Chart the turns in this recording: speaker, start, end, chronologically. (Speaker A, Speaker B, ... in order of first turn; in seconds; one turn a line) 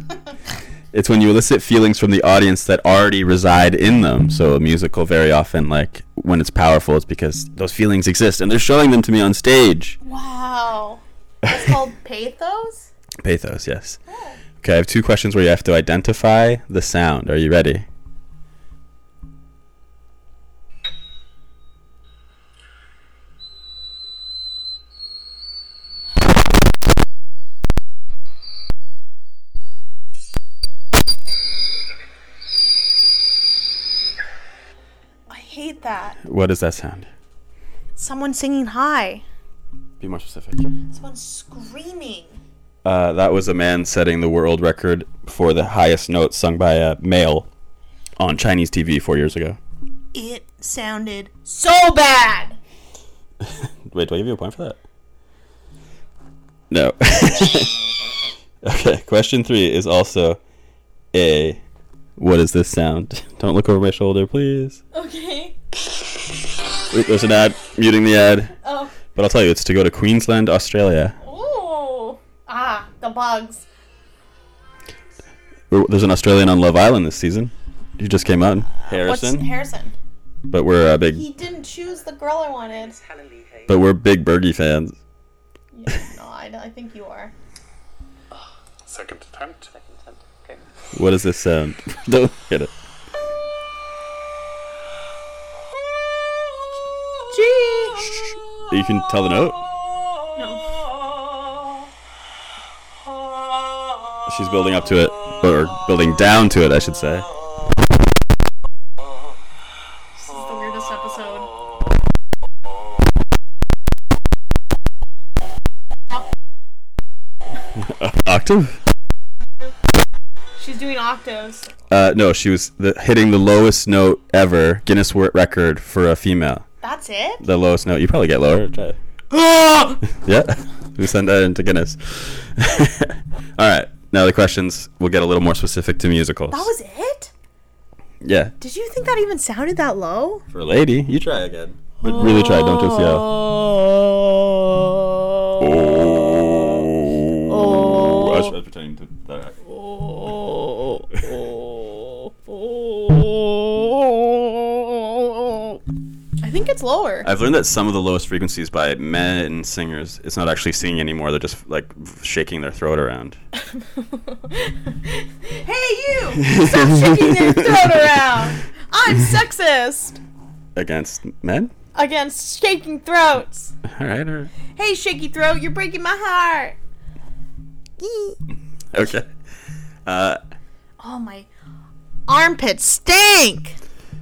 Speaker A: 0.9-10.0
Speaker B: 10.0-12.9
Speaker A: 11.5-11.7
Speaker A: 13.2-14.0
Speaker B: 14.1-14.4
Speaker A: 14.6-17.9
Speaker B: 35.3-36.2
Speaker A: 36.2-37.1
Speaker B: 38.0-39.2
Speaker A: 40.0-40.7
Speaker B: 40.9-42.4
Speaker A: 42.8-47.5
Speaker A: 48.2-49.6
Speaker B: 50.1-52.6
Speaker A: 53.4-54.8
Speaker A: 56.7-57.7
Speaker A: 58.6-60.4
Speaker A: 61.1-61.6
Speaker A: 62.2-64.8
Speaker B: 64.9-65.5
Speaker A: 66.9-68.5
Speaker B: 68.6-69.0
Speaker A: 69.1-71.2
Speaker B: 71.2-73.7
Speaker A: 75.7-79.5
Speaker B: 78.8-80.0
Speaker A: 80.5-81.2
Speaker B: 81.1-83.0
Speaker C: 82.8-83.8
Speaker A: 83.7-85.0
Speaker B: 85.7-87.3
Speaker C: 88.8-90.6
Speaker A: 90.9-92.7
Speaker B: 97.3-98.2
Speaker A: 98.7-99.7
Speaker B: 100.4-100.7
Speaker A: 104.2-107.3
Speaker B: 110.2-111.5
Speaker A: 117.8-118.8
Speaker B: 120.6-121.7
Speaker A: 121.9-126.7
Speaker B: 126.8-127.4
Speaker A: 127.4-129.0
Speaker B: 129.3-130.0
Speaker A: 130.1-136.7
Speaker B: 136.5-137.3
Speaker A: 138.2-138.5
Speaker B: 138.6-140.4
Speaker A: 140.5-143.3
Speaker B: 142.0-146.9
Speaker A: 145.6-149.6
Speaker B: 147.5-148.5
Speaker B: 149.7-155.8
Speaker B: 156.4-157.3
Speaker A: 157.2-163.4
Speaker B: 163.7-170.2
Speaker A: 166.4-168.1
Speaker A: 170.8-171.7
Speaker B: 171.9-173.8
Speaker A: 173.8-174.5
Speaker B: 174.8-176.8
Speaker B: 178.0-178.4
Speaker A: 178.9-179.3
Speaker A: 180.1-180.4
Speaker B: 181.0-181.5
Speaker B: 182.3-183.8